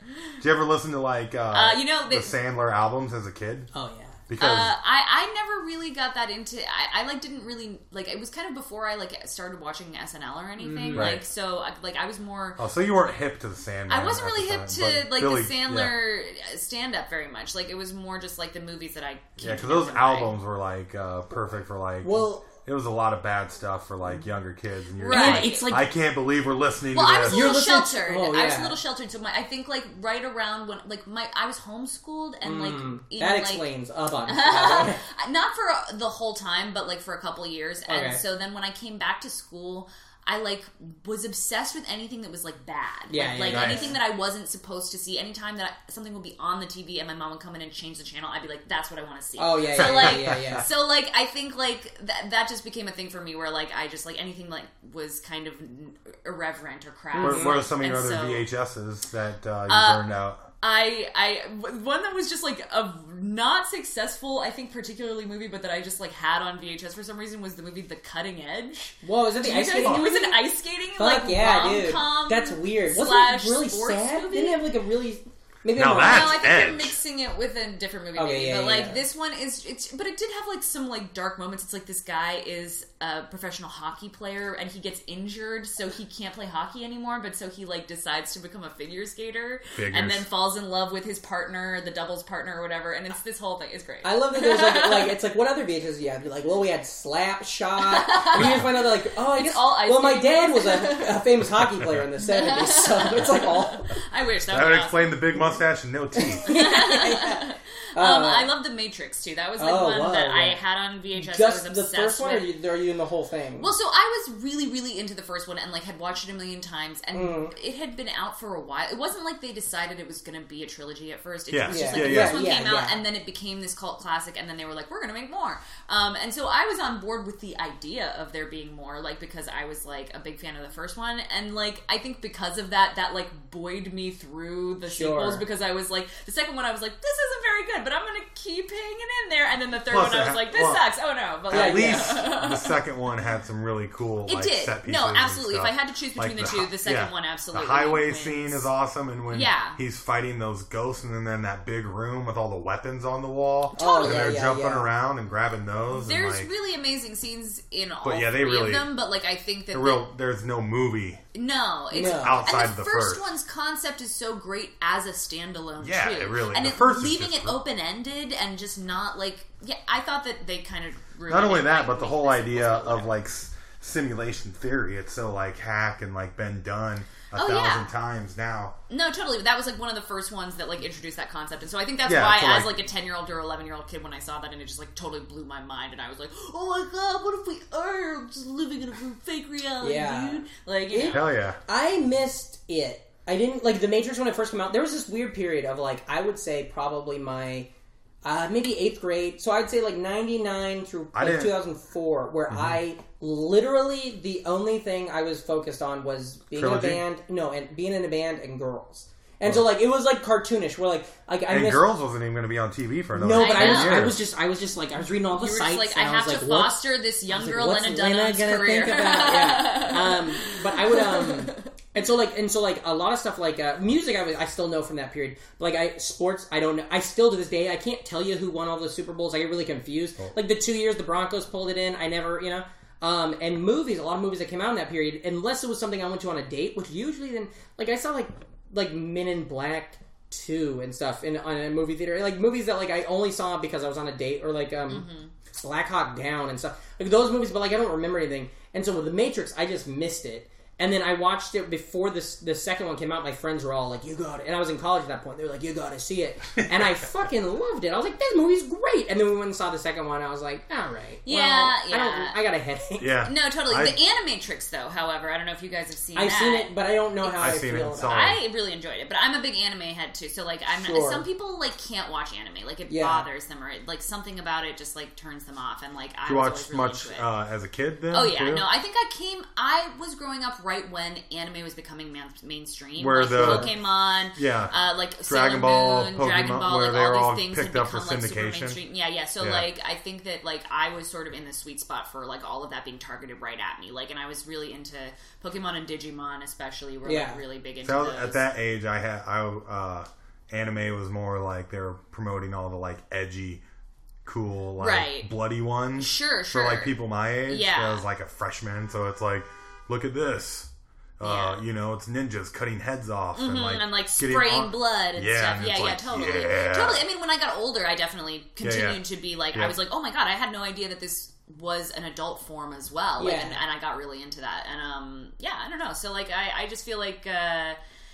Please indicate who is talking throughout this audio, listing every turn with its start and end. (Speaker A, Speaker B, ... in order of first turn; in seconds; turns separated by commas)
Speaker A: 0.4-3.7, Speaker B: 1.5-2.3, Speaker C: 3.7-4.2, Speaker A: 4.3-4.7, Speaker B: 4.4-12.8, Speaker C: 10.6-11.2, Speaker A: 10.9-11.2, Speaker A: 12.6-15.9, Speaker B: 13.9-20.4, Speaker A: 19.4-27.4, Speaker C: 22.0-22.5, Speaker B: 25.0-25.7, Speaker C: 25.1-25.9, Speaker B: 26.9-33.7, Speaker C: 27.2-28.8, Speaker C: 32.4-35.0, Speaker B: 34.3-58.4, Speaker C: 37.9-38.2, Speaker C: 43.1-44.0, Speaker A: 43.5-43.9, Speaker C: 49.4-50.7, Speaker A: 49.8-50.6, Speaker C: 57.1-57.6, Speaker A: 57.2-60.5, Speaker B: 59.7-74.6, Speaker C: 69.0-70.4, Speaker C: 71.0-76.4, Speaker A: 75.7-77.0, Speaker B: 76.0-95.1, Speaker C: 78.1-79.0, Speaker A: 89.7-90.2, Speaker C: 94.0-103.9, Speaker B: 97.9-101.2, Speaker B: 102.2-105.2, Speaker A: 104.5-106.5, Speaker C: 106.1-108.5, Speaker B: 106.4-112.5, Speaker C: 109.6-110.6, Speaker C: 111.2-113.7, Speaker B: 113.6-142.8, Speaker C: 117.1-117.5, Speaker A: 121.5-122.5, Speaker C: 121.7-123.0, Speaker C: 134.9-135.4, Speaker A: 139.9-140.8, Speaker A: 141.5-156.5, Speaker C: 141.5-142.2, Speaker B: 144.2-148.7, Speaker B: 149.3-149.8, Speaker B: 153.7-154.4, Speaker C: 153.8-154.9, Speaker B: 155.9-160.1, Speaker A: 158.0-158.9, Speaker A: 159.7-161.2, Speaker B: 161.3-173.1, Speaker C: 161.9-162.4, Speaker A: 162.0-163.2, Speaker A: 165.8-167.6, Speaker A: 171.3-178.7, Speaker B: 177.3-177.9, Speaker B: 178.9-191.2, Speaker A: 182.1-182.7, Speaker C: 189.8-197.7, Speaker A: 191.1-191.6, Speaker C: 198.2-211.9, Speaker A: 201.1-201.6, Speaker A: 202.5-202.8, Speaker A: 206.5-207.0, Speaker A: 211.5-214.2, Speaker C: 213.1-245.1, Speaker B: 213.3-214.2, Speaker B: 215.4-221.6, Speaker B: 244.9-245.3, Speaker C: 245.6-263.1, Speaker B: 261.2-262.4, Speaker A: 263.0-264.0, Speaker B: 263.2-266.7, Speaker C: 266.1-268.3, Speaker A: 267.2-268.4, Speaker B: 268.1-277.3, Speaker C: 270.7-271.2, Speaker C: 272.9-273.3, Speaker A: 276.2-278.6, Speaker B: 278.1-298.5, Speaker A: 283.0-283.8, Speaker C: 283.3-283.7, Speaker A: 284.3-284.7, Speaker A: 285.2-288.8, Speaker A: 289.4-289.7, Speaker C: 297.0-297.4, Speaker A: 297.8-303.6, Speaker A: 304.2-317.0, Speaker B: 304.8-305.3, Speaker B: 305.9-306.9, Speaker B: 307.5-308.0, Speaker B: 311.2-311.6, Speaker B: 313.4-327.8, Speaker A: 318.6-319.8, Speaker C: 323.2-323.6